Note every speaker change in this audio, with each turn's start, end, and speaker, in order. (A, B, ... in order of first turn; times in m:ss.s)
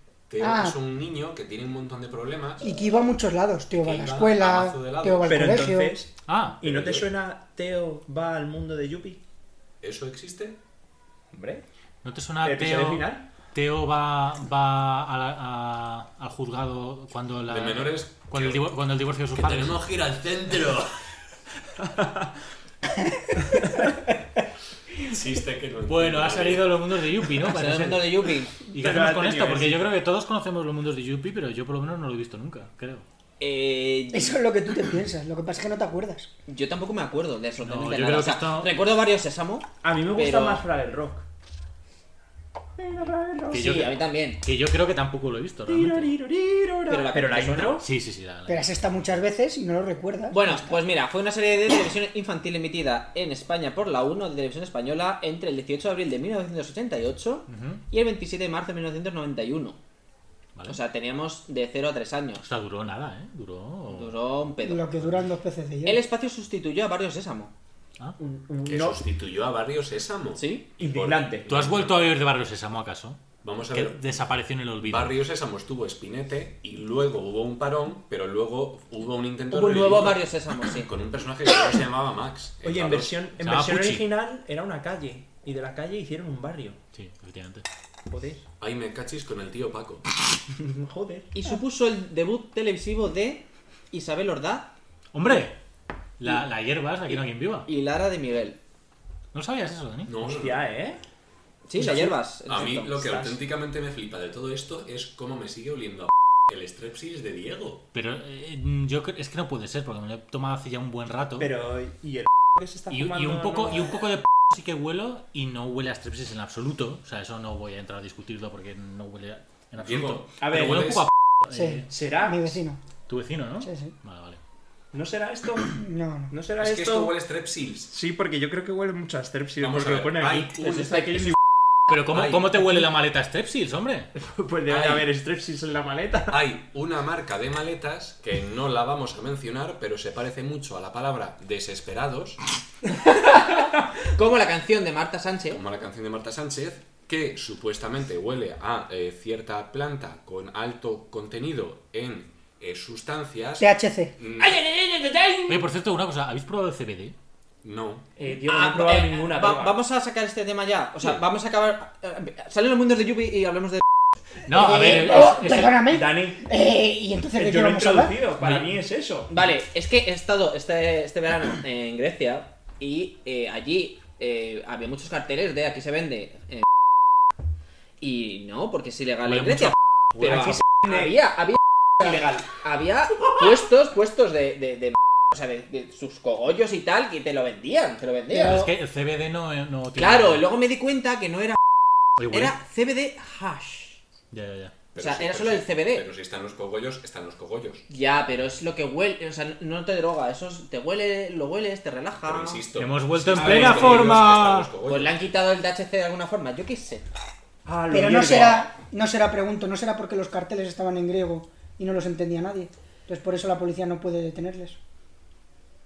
0:00.3-0:02.7 A
0:00.4-0:00.8 B
0:02.6-0:05.9 B
0:03.8-0:05.6 A
0:05.2-0:09.2 C
0:06.3-0:06.6 D
0:06.6-0:07.1 A
0:09.8-0:10.6 A
0:11.3-0:11.6 C
0:12.0-0:19.8 D
0:12.4-0:13.2 C
0:17.5-0:18.6 A
0:19.4-0:20.9 A
0:21.9-0:22.2 C
0:25.0-0:26.7 A
0:25.9-0:33.0 D
0:27.4-0:28.5 E
0:28.7-0:29.9 C
0:33.4-0:34.4 E
0:34.1-0:36.3 B
0:36.5-0:40.6 E
0:37.6-0:38.7 D
0:39.8-0:41.2 C
0:42.8-0:43.9 C
0:43.5-0:44.4 E
0:43.5-0:46.1 D
0:45.7-0:47.8 C
0:46.9-0:47.8 E
0:47.8-0:48.7 D
0:48.5-0:50.4 B
0:50.3-0:59.8 E
0:57.5-0:57.8 D
1:00.7-1:02.4 E
1:02.4-1:04.1 D
1:03.9-1:04.8 E
1:04.6-1:06.0 B
1:05.8-1:07.5 E
1:08.2-1:09.0 C
1:08.6-1:12.1 A
1:10.4-1:10.6 E
1:10.8-1:11.5 C
1:11.5-1:15.2 D
1:13.4-1:14.2 A
1:14.8-1:23.2 A
1:19.5-1:20.9 E
1:22.6-1:26.8 C
1:23.4-1:24.0 D
1:26.9-1:27.6 D
1:28.1-1:28.4 C
1:28.6-1:30.0 A
1:30.5-1:31.3 C
1:31.3-1:34.7 E
1:35.1-1:35.6 D
1:36.2-1:37.7 D
1:37.1-1:38.6 E
1:39.3-1:40.1 D
1:40.0-1:40.6 A
1:40.2-1:41.0 C
1:41.7-1:43.3 E
1:41.8-1:42.1 C
1:42.4-1:47.8 A
1:47.9-1:51.5 D
1:51.4-1:54.0 C
1:52.9-2:01.9 D
1:59.8-2:01.0 A
2:00.4-2:00.9 C
2:01.5-2:02.8 B
2:01.9-2:02.6 C
2:03.1-2:04.4 D
2:03.6-2:03.9 B
2:04.9-2:05.7 C
2:05.7-2:06.3 B
2:06.3-2:07.1 C
2:06.6-2:07.9 A
2:07.9-2:11.3 C
2:09.6-2:11.2 A
2:11.9-2:14.1 D
2:12.1-2:12.5 A
2:14.2-2:16.4 C
2:14.7-2:15.0 A
2:16.3-2:22.4 A
2:23.0-2:25.6 E
2:25.5-2:34.6 A
2:33.6-2:34.1 B
2:34.4-2:35.6 E
2:35.5-2:37.1 D
2:37.6-2:38.1 A
2:38.2-2:39.8 C
2:38.4-2:43.8 E
2:44.5-2:45.8 D
2:44.5-2:48.2 B
2:45.9-2:46.4 C
2:47.4-2:49.3 C
2:48.4-2:48.7 D
2:49.3-2:56.7 E
2:58.0-3:08.7 E
2:59.3-3:00.5 D
3:00.3-3:01.1 C
3:02.0-3:02.4 C
3:08.4-3:08.6 B
3:08.4-3:10.4 D
3:10.0-3:11.6 E
3:12.2-3:12.5 D
3:12.3-3:14.0 E
3:14.3-3:14.7 D
3:14.9-3:17.8 A
3:15.0-3:16.0 E
3:17.9-3:22.6 E
3:22.2-3:25.2 A
3:22.8-3:24.7 D
3:23.4-3:24.1 C
3:24.8-3:27.0 E
3:27.6-3:28.7 C
3:27.9-3:34.8 B